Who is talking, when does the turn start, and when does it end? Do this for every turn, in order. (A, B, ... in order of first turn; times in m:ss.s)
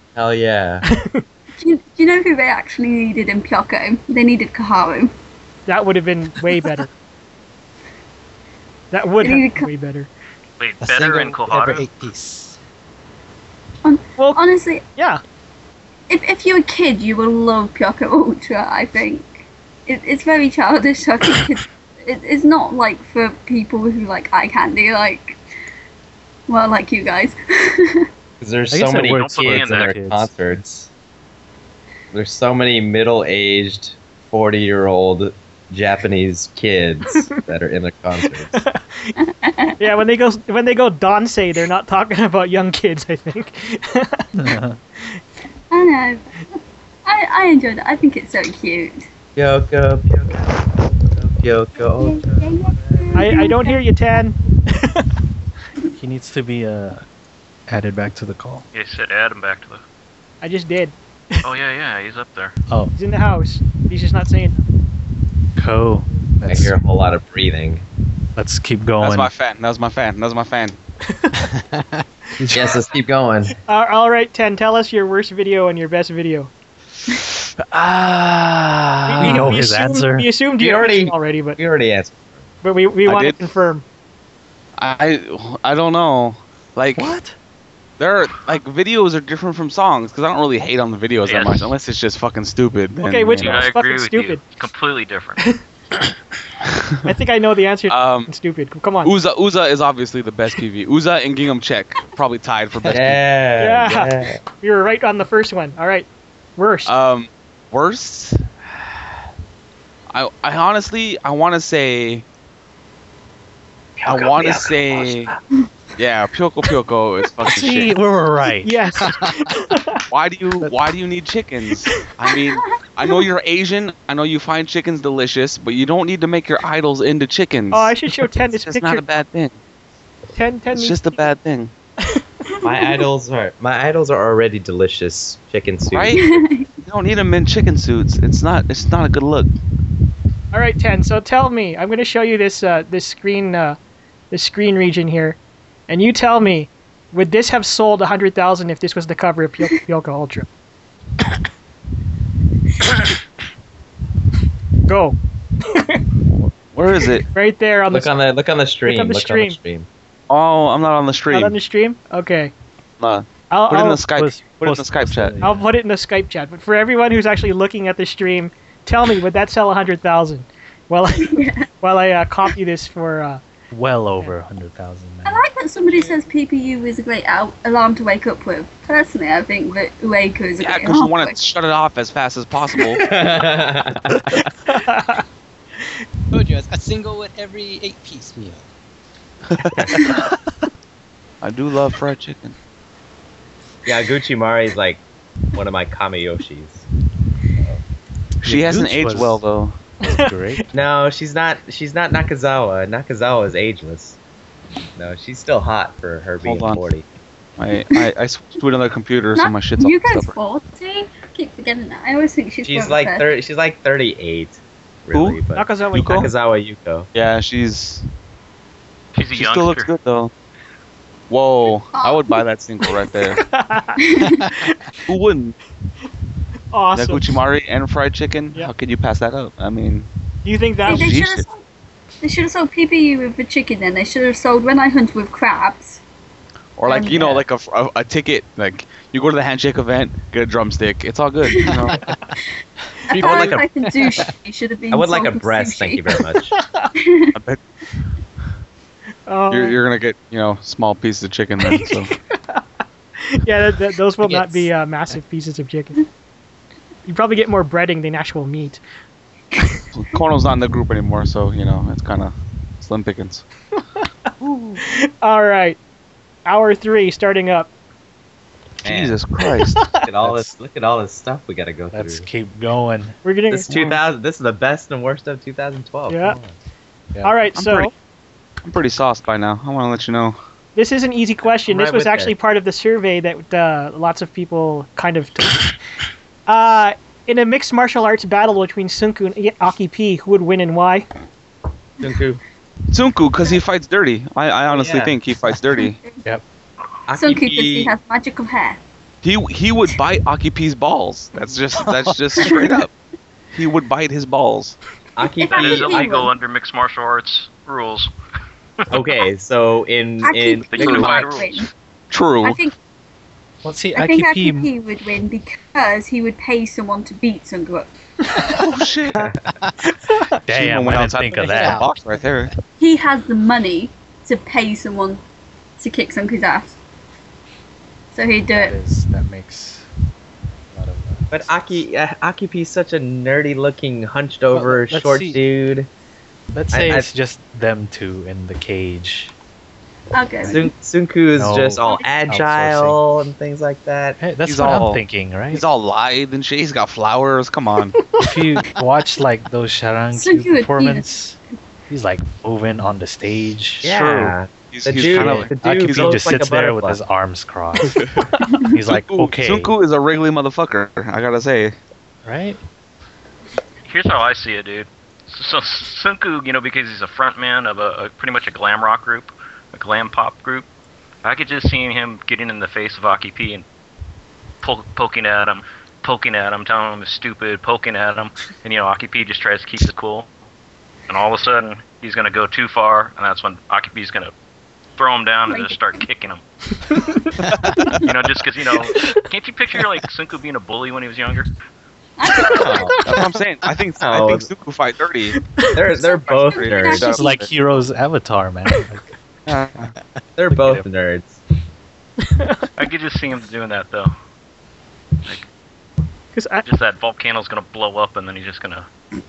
0:00.2-0:00.9 A
0:00.9-0:01.2 B
0:01.6-0:05.1 C
0:05.7-0:06.9 B
0:08.9-0:10.1 B
0:09.2-0:09.7 C
0:10.6-0:11.9 D
0:10.8-0:12.6 E
0:13.8-0:14.8 C
0:16.1-0:25.4 C
0:26.5-0:28.1 C
0:28.4-0:30.9 A
0:28.7-0:30.3 F
0:28.9-0:30.0 D
0:32.1-0:38.6 A
0:38.5-0:39.1 B
0:39.2-0:39.8 C
0:39.8-0:44.3 B
0:44.4-0:44.8 F
0:45.7-0:49.1 C
0:49.4-0:53.1 A
0:52.0-0:53.8 C
0:53.2-0:55.1 B
0:55.9-0:57.0 F
0:57.7-0:58.6 F
0:58.7-0:59.8 D
1:00.4-1:01.4 B
1:01.4-1:02.5 D
1:03.0-1:04.6 B
1:05.6-1:06.8 F
1:06.5-1:07.8 A
1:08.4-1:09.3 F
1:09.0-1:10.8 G
1:11.1-1:11.5 B
1:11.5-1:12.0 E
1:12.4-1:13.6 A
1:13.7-1:16.5 B
1:17.6-1:20.3 F
1:19.1-1:21.6 B
1:20.6-1:22.2 A
1:22.6-1:23.8 B
1:23.1-1:23.4 G
1:24.8-1:27.2 G
1:27.0-1:27.4 F
1:28.0-1:33.7 G
1:31.3-1:31.8 D
1:33.0-1:34.4 B
1:33.4-1:35.4 D
1:36.6-1:37.1 G
1:37.0-1:39.1 B
1:37.9-1:38.3 G
1:39.0-1:43.2 G
1:42.9-1:44.4 A
1:43.6-1:46.9 B
1:46.9-1:48.5 G
1:50.1-1:52.2 G
1:54.0-1:55.3 A
1:54.1-1:55.3 G
1:56.0-1:57.9 G
1:57.5-1:58.7 F
1:58.6-2:00.0 B
1:59.0-1:59.3 E
2:00.1-2:09.6 G
2:02.4-2:03.3 C
2:07.7-2:09.0 B
2:10.4-2:11.3 B
2:10.7-2:11.7 G
2:12.6-2:13.1 C
2:12.6-2:16.4 A
2:15.9-2:16.2 G
2:16.1-2:16.7 C
2:16.8-2:19.5 G
2:20.5-2:23.8 B
2:24.3-2:30.5 B
2:34.9-2:36.1 B
2:36.5-2:37.3 G
2:37.3-2:38.2 B
2:37.9-2:39.9 A
2:38.9-2:39.6 B
2:40.3-2:41.6 G
2:41.3-2:42.5 B
2:43.0-2:45.4 G
2:43.5-2:44.0 B
2:44.2-2:45.7 F
2:45.4-2:53.4 B
2:51.2-2:51.7 C
2:53.7-2:55.4 F
2:55.2-3:01.5 C
3:00.6-3:03.0 G
3:03.0-3:04.5 A
3:04.7-3:05.2 B
3:06.3-3:08.7 E
3:09.5-3:10.2 G
3:09.7-3:10.0 A
3:11.4-3:12.6 G
3:13.9-3:15.0 A
3:15.5-3:16.8 A
3:18.4-3:19.8 G
3:18.4-3:19.4 F
3:20.0-3:20.6 F
3:20.0-3:20.7 B
3:20.7-3:24.2 A
3:25.0-3:27.0 A
3:26.4-3:26.9 G
3:27.6-3:30.3 G
3:29.3-3:33.3 C
3:32.6-3:37.1 A
3:35.1-3:35.4 G
3:35.6-3:36.3 B
3:35.9-3:36.3 G
3:37.1-3:38.0 G
3:39.2-3:39.9 D
3:39.3-3:40.3 G
3:41.3-3:43.4 G
3:41.9-3:42.4 C
3:43.4-3:44.0 B
3:44.0-3:44.5 C
3:45.1-3:45.6 G
3:46.7-3:47.4 B
3:47.0-3:50.1 G
3:50.4-3:51.1 B
3:50.8-3:51.6 C
3:50.8-3:51.5 G
3:52.2-3:56.0 C
3:56.8-4:02.0 G
3:56.9-3:57.4 C
4:01.4-4:01.9 C
4:03.1-4:06.3 C
4:03.1-4:03.7 A
4:04.9-4:06.6 A
4:06.6-4:06.9 B
4:07.0-4:07.4 C
4:07.4-4:07.6 G
4:09.3-4:09.8 B
4:09.5-4:12.1 G
4:11.6-4:12.6 B
4:13.2-4:16.0 B
4:14.2-4:14.7 E
4:17.1-4:18.8 B
4:19.9-4:23.4 G
4:24.4-4:24.8 G
4:24.8-4:25.8 B
4:26.5-4:27.7 B
4:28.8-4:29.9 G
4:28.8-4:29.2 A
4:29.6-4:30.1 B
4:29.9-4:32.3 A
4:30.2-4:30.5 F
4:31.9-4:33.2 F
4:33.2-4:33.7 B
4:33.5-4:36.5 A
4:33.7-4:34.0 G
4:36.1-4:36.4 B
4:37.1-4:37.4 F
4:37.2-4:37.9 B
4:37.6-4:37.9 G
4:38.6-4:40.4 G
4:40.8-4:45.8 B
4:41.7-4:42.3 A
4:46.5-4:51.1 B
4:52.0-4:52.4 A
4:52.9-4:56.0 G
4:54.7-4:55.2 A
4:55.7-4:56.2 C
4:57.1-4:57.9 A
4:57.1-4:58.8 C
4:59.2-5:02.9 G
5:02.4-5:02.8 C
5:03.5-5:04.8 G
5:05.2-5:06.2 A
5:05.3-5:06.3 C
5:05.5-5:08.1 D
5:08.9-5:11.0 A
5:10.2-5:11.7 C
5:10.7-5:11.6 D
5:10.8-5:11.4 G
5:12.1-5:12.6 G
5:12.4-5:12.8 C
5:13.6-5:14.7 F
5:14.0-5:17.9 C
5:18.5-5:19.3 G
5:19.8-5:20.4 B
5:20.5-5:21.9 F
5:20.5-5:22.5 G
5:21.4-5:21.9 E
5:22.8-5:25.2 C
5:25.8-5:26.7 C
5:28.1-5:28.8 C
5:28.5-5:29.9 F
5:30.7-5:31.8 F
5:31.3-5:35.9 A
5:34.5-5:35.4 F
5:36.5-5:39.3 F
5:36.7-5:37.1 A
5:40.1-5:40.7 C
5:40.5-5:44.3 A
5:41.4-5:43.0 F
5:41.8-5:42.1 C
5:44.2-5:45.6 F
5:44.4-5:48.0 G
5:48.2-5:51.4 F
5:50.1-5:51.2 C
5:51.9-5:54.3 F
5:53.8-5:57.0 A
5:53.9-5:56.4 G
5:55.1-5:58.1 F
5:58.0-5:58.2 G
5:58.5-5:58.8 C
5:58.7-5:59.7 F
5:58.9-6:01.8 G
6:02.2-6:02.6 F
6:03.8-6:10.7 D
6:11.2-6:13.6 D
6:14.6-6:20.3 D
6:21.1-6:24.3 D
6:25.0-6:26.4 D
6:25.5-6:26.0 C
6:26.9-6:27.3 B
6:27.5-6:28.0 G
6:28.0-6:31.5 D
6:32.2-6:33.0 C
6:32.4-6:33.2 B
6:32.5-6:35.4 G
6:34.0-6:34.5 A
6:35.5-6:35.8 B
6:35.8-6:37.2 A
6:36.0-6:37.5 C
6:36.3-6:37.5 G
6:37.2-6:39.0 F
6:39.5-6:39.9 G
6:40.4-6:41.4 A
6:40.5-6:40.8 F
6:42.2-6:42.7 B
6:42.8-6:44.1 D
6:46.3-6:46.7 B
6:46.6-6:48.9 D